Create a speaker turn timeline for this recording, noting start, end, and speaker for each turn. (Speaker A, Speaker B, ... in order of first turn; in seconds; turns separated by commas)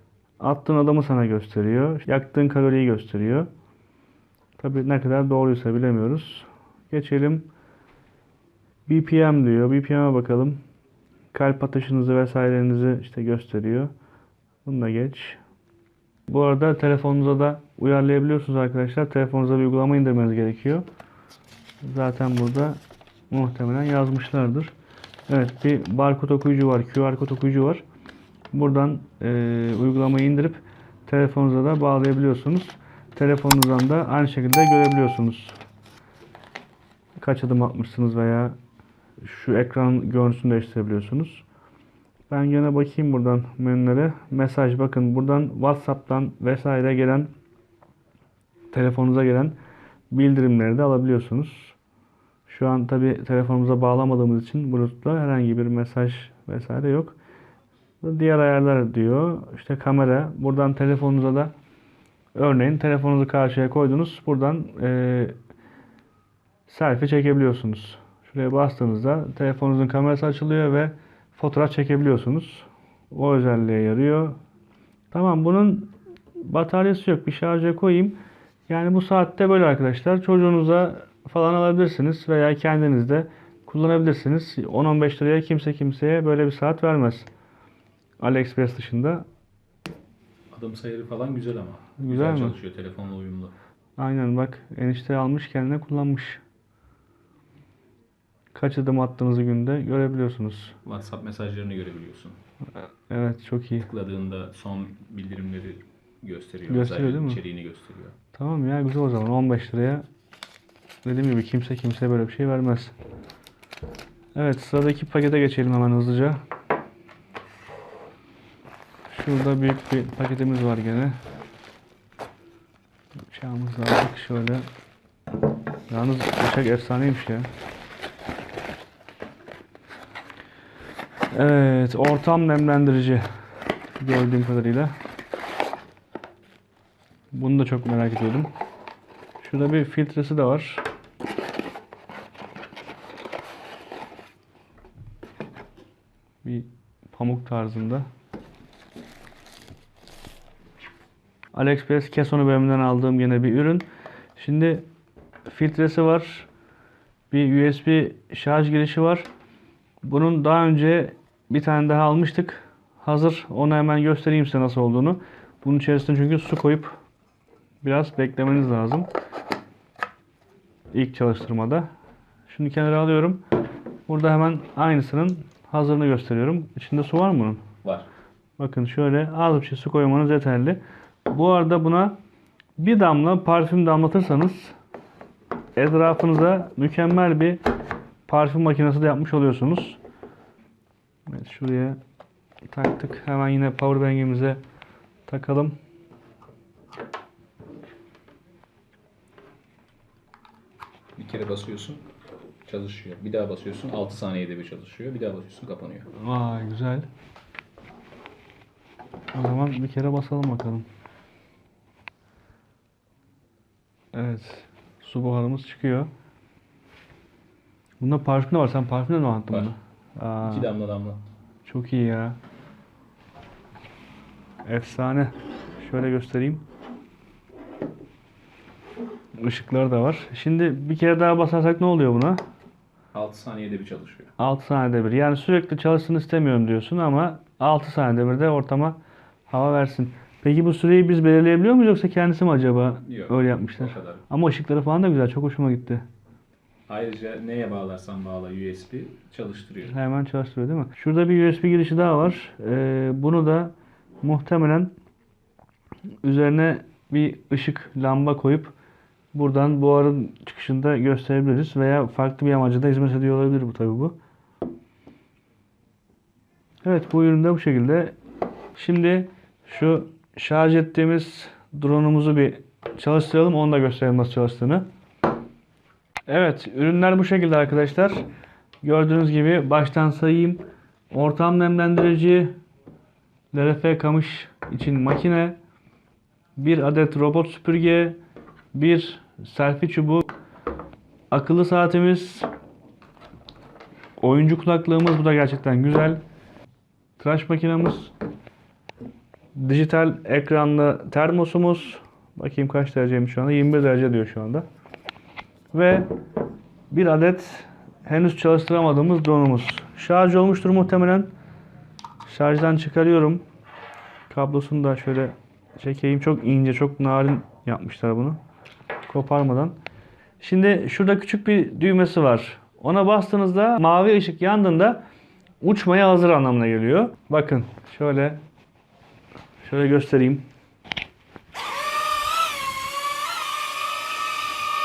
Speaker A: 0.4-3.5, Speaker A: 4.6-7.5, Speaker A: 8.9-10.6, Speaker A: 11.3-13.9, Speaker A: 14.7-15.4, Speaker A: 16.3-20.9, Speaker A: 21.8-22.8, Speaker A: 23.3-24.7, Speaker A: 25.3-27.8, Speaker A: 28.5-35.6, Speaker A: 37.2-38.6, Speaker A: 39.2-41.4, Speaker A: 42.3-47.3, Speaker A: 48.7-49.5, Speaker A: 50.1-51.8, Speaker A: 52.5-57.2, Speaker A: 58.0-61.5, Speaker A: 62.4-65.4, Speaker A: 66.7-74.4, Speaker A: 75.1-75.9, Speaker A: 76.5-78.2, Speaker A: 78.7-87.3, Speaker A: 88.2-89.3, Speaker B: 90.5-93.5, Speaker A: 92.0-92.6, Speaker A: 94.0-96.4, Speaker A: 98.5-100.8, Speaker B: 100.8-102.4, Speaker A: 103.1-103.9, Speaker B: 103.9-108.2, Speaker A: 106.7-107.4, Speaker A: 108.3-110.1, Speaker A: 111.0-112.9, Speaker A: 114.3-116.4, Speaker A: 119.1-121.2, Speaker A: 123.3-124.7, Speaker A: 125.9-127.5, Speaker A: 131.3-133.3, Speaker A: 134.0-134.9, Speaker A: 137.3-138.5, Speaker A: 139.4-140.8, Speaker A: 146.4-148.1, Speaker A: 151.5-153.8, Speaker A: 154.4-154.8, Speaker A: 155.5-156.5, Speaker A: 157.3-159.3, Speaker A: 160.0-167.0, Speaker A: 167.8-169.1, Speaker A: 170.9-171.9, Speaker A: 172.5-173.4, Speaker A: 174.1-177.7, Speaker A: 178.6-182.2, Speaker A: 182.8-184.8, Speaker A: 185.8-187.6, Speaker A: 188.3-190.0, Speaker A: 191.3-192.0, Speaker A: 192.7-194.6, Speaker A: 195.3-195.8, Speaker B: 201.2-202.1, Speaker B: 202.7-206.1, Speaker A: 206.2-207.1, Speaker A: 209.3-210.9, Speaker A: 214.1-216.1, Speaker A: 218.0-220.7, Speaker B: 220.4-221.2, Speaker A: 221.7-222.4, Speaker A: 224.7-226.6, Speaker A: 229.4-232.4, Speaker B: 233.1-234.3, Speaker A: 234.4-246.0, Speaker B: 243.0-244.3, Speaker B: 246.9-250.0, Speaker A: 249.9-254.9, Speaker A: 256.2-258.7, Speaker A: 259.3-264.2, Speaker A: 266.8-268.2, Speaker A: 268.8-274.9, Speaker A: 276.3-278.2, Speaker A: 278.8-282.6, Speaker A: 283.5-285.6, Speaker A: 286.6-288.2, Speaker A: 288.7-290.3, Speaker A: 291.3-292.5, Speaker A: 294.2-296.2, Speaker A: 297.2-298.1, Speaker A: 299.6-304.7, Speaker A: 305.7-306.1, Speaker A: 306.9-311.3, Speaker A: 312.2-313.4, Speaker A: 314.3-318.4, Speaker A: 319.1-319.8, Speaker A: 320.4-325.0, Speaker A: 325.6-328.4, Speaker A: 329.6-330.5